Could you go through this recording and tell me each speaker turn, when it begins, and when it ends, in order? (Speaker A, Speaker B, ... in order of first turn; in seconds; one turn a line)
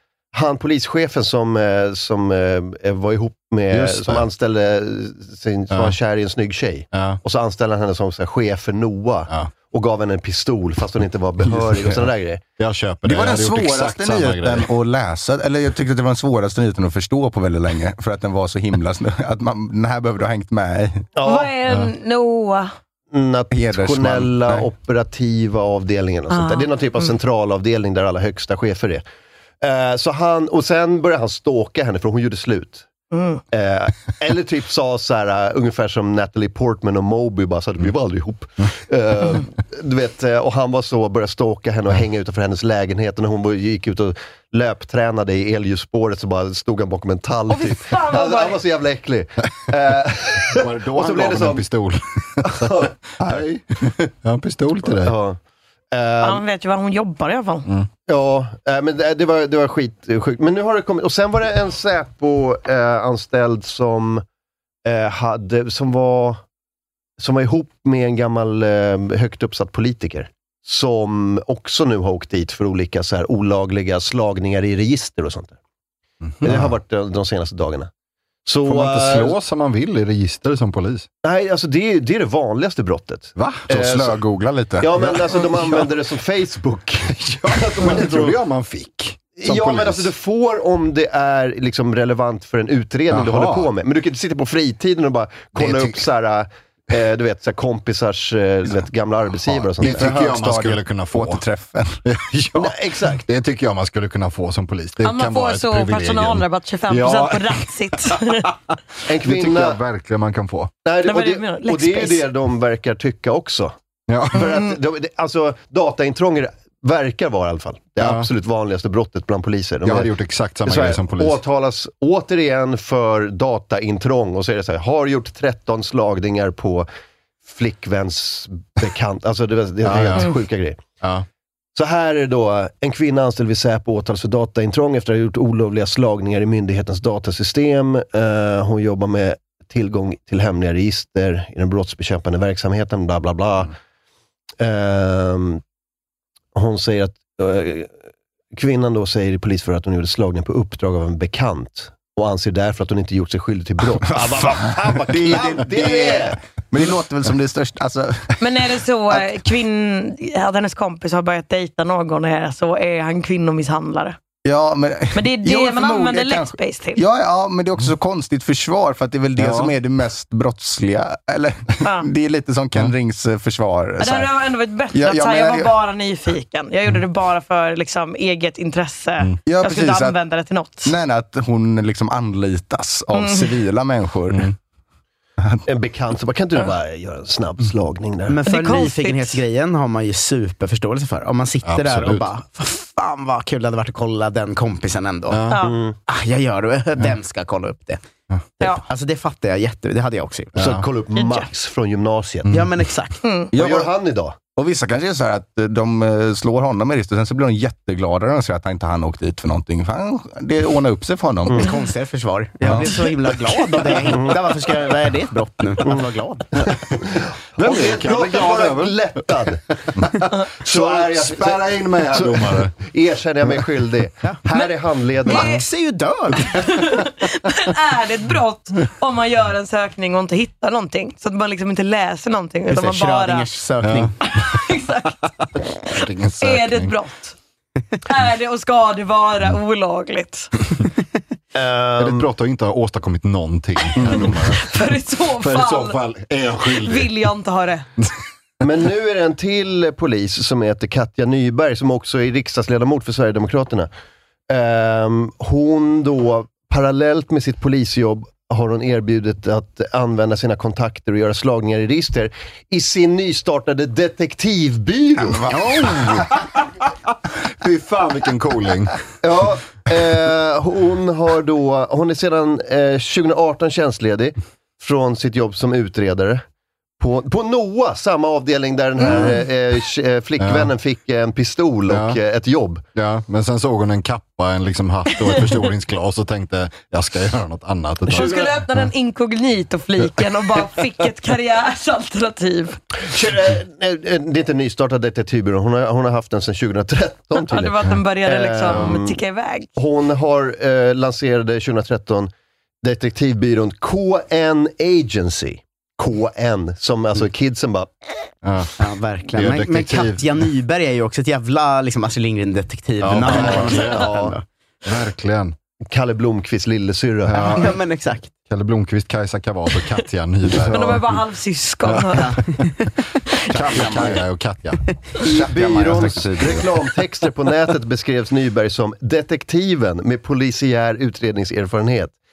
Speaker A: 0.3-12.4
Speaker B: 3.7-4.3
Speaker B: 5.7-6.0
Speaker B: 6.9-7.2
Speaker B: 11.4-14.7
Speaker C: 13.0-21.1
Speaker A: 21.2-21.5
Speaker D: 21.2-22.7
Speaker A: 23.1-29.0
Speaker C: 23.5-24.6
Speaker D: 26.3-27.1
Speaker A: 29.6-32.9
Speaker D: 33.1-33.4
Speaker A: 33.5-51.6
Speaker D: 47.5-48.6
Speaker B: 50.5-55.2
Speaker A: 52.4-52.9
Speaker A: 54.9-55.4
Speaker A: 55.9-56.4
Speaker D: 56.2-57.7
Speaker A: 58.1-64.2
Speaker A: 64.8-66.4
Speaker A: 67.2-75.6
Speaker B: 76.2-76.8
Speaker A: 76.4-77.9
Speaker A: 78.5-79.3
Speaker B: 78.6-81.1
Speaker A: 81.2-84.2
Speaker B: 83.3-83.7
Speaker C: 83.7-85.1
Speaker A: 84.8-88.4
Speaker B: 85.0-85.6
Speaker B: 87.1-90.1
Speaker A: 89.4-100.0
Speaker B: 93.1-93.7
Speaker B: 95.5-96.1
Speaker B: 99.8-101.4
Speaker C: 99.8-102.0
Speaker B: 102.0-107.6
Speaker A: 102.5-103.2
Speaker D: 105.0-108.5
Speaker A: 109.1-109.8
Speaker B: 109.2-110.7
Speaker A: 110.8-113.7
Speaker D: 111.0-112.3
Speaker B: 114.1-114.5
Speaker A: 114.3-120.1
Speaker D: 114.3-114.7
Speaker B: 118.0-118.3
Speaker B: 119.8-121.4
Speaker A: 120.6-126.9
Speaker A: 127.5-130.8
Speaker B: 129.8-130.3
Speaker A: 131.8-143.7
Speaker A: 144.6-145.6
Speaker A: 146.5-147.9
Speaker A: 148.5-156.4
Speaker C: 154.1-158.4
Speaker D: 158.4-164.2
Speaker C: 164.4-174.3
Speaker D: 165.1-167.0
Speaker B: 169.4-169.7
Speaker D: 171.8-172.1
Speaker D: 174.0-180.9
Speaker C: 174.9-175.7
Speaker C: 179.4-180.2
Speaker C: 180.8-184.5
Speaker D: 183.1-183.5
Speaker A: 185.7-188.4
Speaker E: 188.3-195.5
Speaker D: 188.4-189.4
Speaker B: 191.7-192.3
Speaker B: 195.3-195.6
Speaker D: 195.5-195.8
Speaker A: 195.6-195.9
Speaker E: 196.1-198.0
Speaker E: 198.6-200.6
Speaker A: 200.6-202.5
Speaker B: 200.6-200.8
Speaker D: 201.1-201.5
Speaker E: 202.5-203.2
Speaker D: 203.2-203.5
Speaker C: 203.5-203.9
Speaker A: 203.5-204.3
Speaker C: 204.6-211.7
Speaker E: 211.6-216.5
Speaker C: 212.6-213.0
Speaker A: 217.1-219.6
Speaker B: 217.6-219.0
Speaker A: 220.6-225.5
Speaker B: 220.7-222.7
Speaker D: 225.3-225.6
Speaker E: 225.3-226.8
Speaker D: 226.5-233.5
Speaker E: 232.7-234.1
Speaker B: 233.8-234.1
Speaker D: 234.2-235.2
Speaker B: 235.9-236.9
Speaker D: 236.4-237.3
Speaker D: 238.1-240.5
Speaker A: 241.5-242.3
Speaker B: 242.0-244.8
Speaker D: 244.2-246.0
Speaker B: 245.4-247.1
Speaker D: 246.7-247.8
Speaker A: 248.6-253.9
Speaker A: 254.5-265.6
Speaker C: 265.2-266.3
Speaker E: 265.5-266.1
Speaker B: 267.6-268.9
Speaker A: 269.2-276.4
Speaker A: 277.0-282.8
Speaker D: 279.0-279.4
Speaker B: 279.0-279.4
Speaker B: 280.4-280.7
Speaker B: 281.9-282.2
Speaker B: 282.9-288.4
Speaker D: 288.1-292.8
Speaker A: 293.1-299.2
Speaker D: 297.4-299.7
Speaker A: 299.8-302.3
Speaker A: 302.8-307.9
Speaker B: 308.4-308.7
Speaker E: 308.8-314.4
Speaker B: 309.3-310.4
Speaker B: 313.0-314.2
Speaker A: 313.2-314.4
Speaker B: 314.8-315.5
Speaker A: 315.9-317.7
Speaker B: 317.3-317.7
Speaker E: 317.5-318.3
Speaker B: 318.5-321.2
Speaker D: 320.7-322.4
Speaker B: 321.9-322.4
Speaker B: 323.5-324.8
Speaker A: 325.2-332.1
Speaker B: 325.4-326.7
Speaker C: 325.6-326.0